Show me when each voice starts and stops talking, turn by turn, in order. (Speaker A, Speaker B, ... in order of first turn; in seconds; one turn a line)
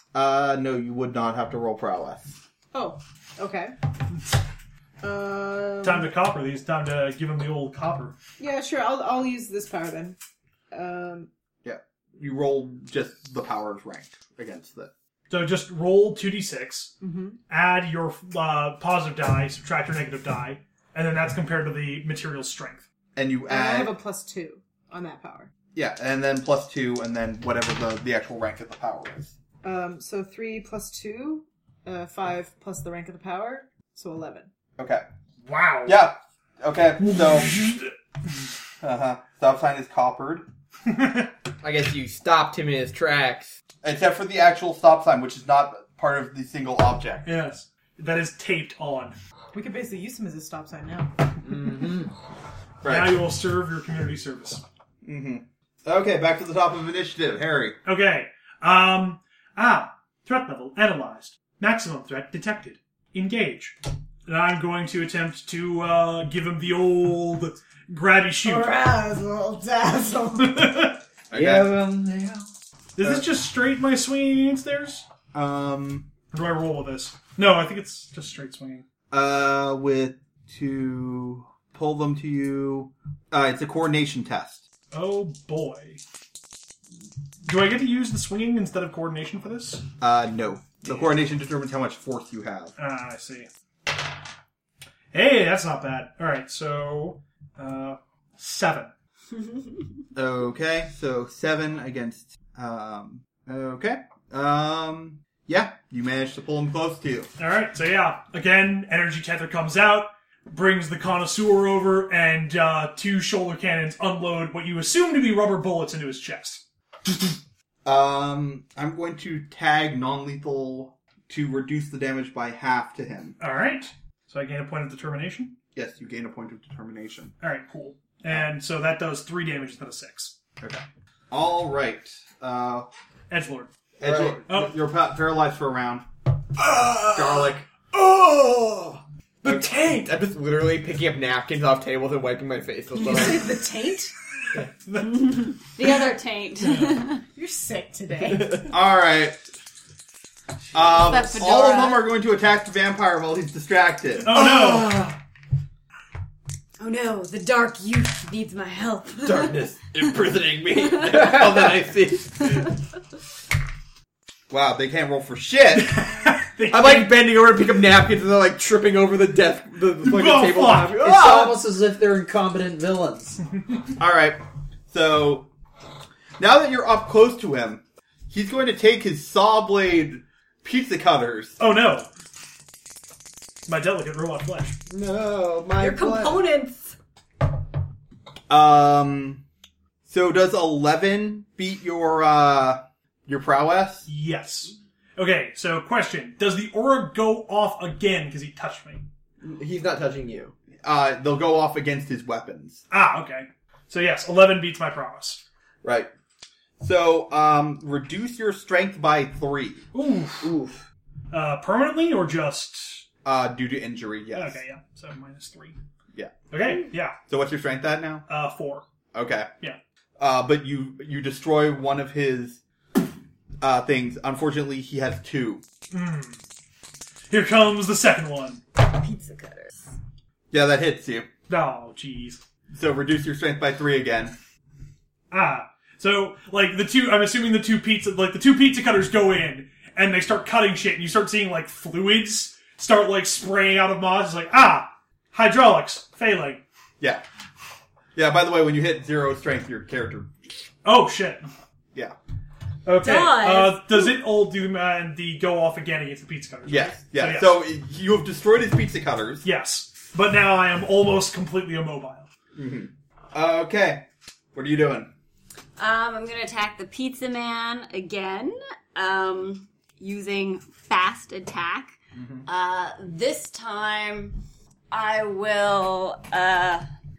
Speaker A: 0.1-2.4
Speaker B: 2.7-3.8
Speaker B: 5.0-6.1
Speaker C: 5.8-8.1
Speaker B: 8.4-10.2
Speaker B: 10.7-11.3
Speaker A: 11.6-14.9
Speaker C: 15.3-16.9
Speaker B: 17.0-17.4
Speaker C: 17.5-22.9
Speaker A: 23.1-23.9
Speaker B: 23.5-25.5
Speaker A: 25.7-29.3
Speaker B: 29.6-34.5
Speaker A: 34.8-35.0
Speaker C: 35.4-36.0
Speaker A: 35.8-37.6
Speaker C: 37.0-37.9
Speaker A: 38.8-40.5
Speaker C: 40.9-41.3
Speaker D: 41.6-43.5
Speaker A: 43.8-47.3
Speaker C: 47.2-49.1
Speaker B: 49.5-51.1
Speaker E: 51.4-52.1
Speaker A: 52.8-53.2
Speaker C: 52.8-54.6
Speaker A: 55.0-57.8
Speaker C: 57.8-68.7
Speaker B: 68.4-70.8
Speaker C: 70.4-71.0
Speaker A: 71.3-71.8
Speaker E: 71.3-72.5
Speaker C: 73.0-75.0
Speaker A: 75.3-76.1
Speaker C: 76.3-78.8
Speaker A: 79.1-84.6
Speaker C: 84.9-86.0
Speaker C: 87.4-89.8
Speaker A: 90.0-92.7
Speaker C: 92.8-93.5
Speaker C: 95.1-98.9
Speaker A: 100.1-107.3
Speaker C: 107.4-116.6
Speaker A: 117.8-123.4
Speaker C: 123.4-125.5
Speaker A: 125.7-127.3
Speaker C: 127.4-130.3
Speaker A: 130.6-132.9
Speaker C: 133.3-133.7
Speaker A: 134.0-136.0
Speaker D: 134.0-134.4
Speaker C: 134.5-134.7
Speaker D: 136.6-143.6
Speaker A: 137.1-137.7
Speaker B: 143.0-144.1
Speaker F: 145.0-147.2
Speaker C: 146.6-147.0
Speaker B: 147.3-148.7
Speaker A: 148.7-149.4
Speaker A: 150.7-154.3
Speaker F: 150.9-152.0
Speaker C: 154.2-155.0
Speaker D: 154.3-155.2
Speaker F: 156.8-159.7
Speaker D: 159.2-162.7
Speaker F: 160.8-161.6
Speaker A: 164.5-166.0
Speaker C: 165.8-167.2
Speaker D: 166.6-171.6
Speaker C: 170.0-171.1
Speaker E: 171.0-173.4
Speaker A: 174.0-175.5
Speaker A: 176.4-181.6
Speaker C: 181.6-182.1
Speaker C: 183.7-184.8
Speaker D: 184.9-186.5
Speaker F: 185.8-186.9
Speaker A: 188.5-189.4
Speaker A: 190.1-194.1
Speaker C: 194.1-199.0
Speaker D: 199.4-200.5
Speaker A: 200.8-202.8
Speaker C: 202.9-205.4
Speaker A: 205.8-206.1
Speaker A: 206.8-209.8
Speaker C: 209.9-210.6
Speaker C: 211.3-213.0
Speaker A: 213.2-214.6
Speaker C: 214.3-215.8
Speaker C: 216.5-217.2
Speaker A: 217.3-218.2
Speaker C: 218.3-218.8
Speaker A: 219.1-219.5
Speaker A: 220.2-222.6
Speaker A: 223.6-225.6
Speaker C: 225.9-226.4
Speaker C: 227.3-228.6
Speaker F: 228.8-229.9
Speaker A: 230.5-231.3
Speaker C: 231.5-232.4
Speaker A: 232.7-234.3
Speaker C: 235.3-246.6
Speaker A: 248.1-250.5
Speaker C: 250.8-251.4
Speaker C: 252.8-257.6
Speaker F: 253.0-254.1
Speaker A: 256.6-259.4
Speaker C: 259.4-262.3
Speaker A: 262.6-265.1
Speaker F: 265.8-271.9
Speaker A: 272.1-272.4
Speaker F: 272.4-274.4
Speaker F: 274.9-276.8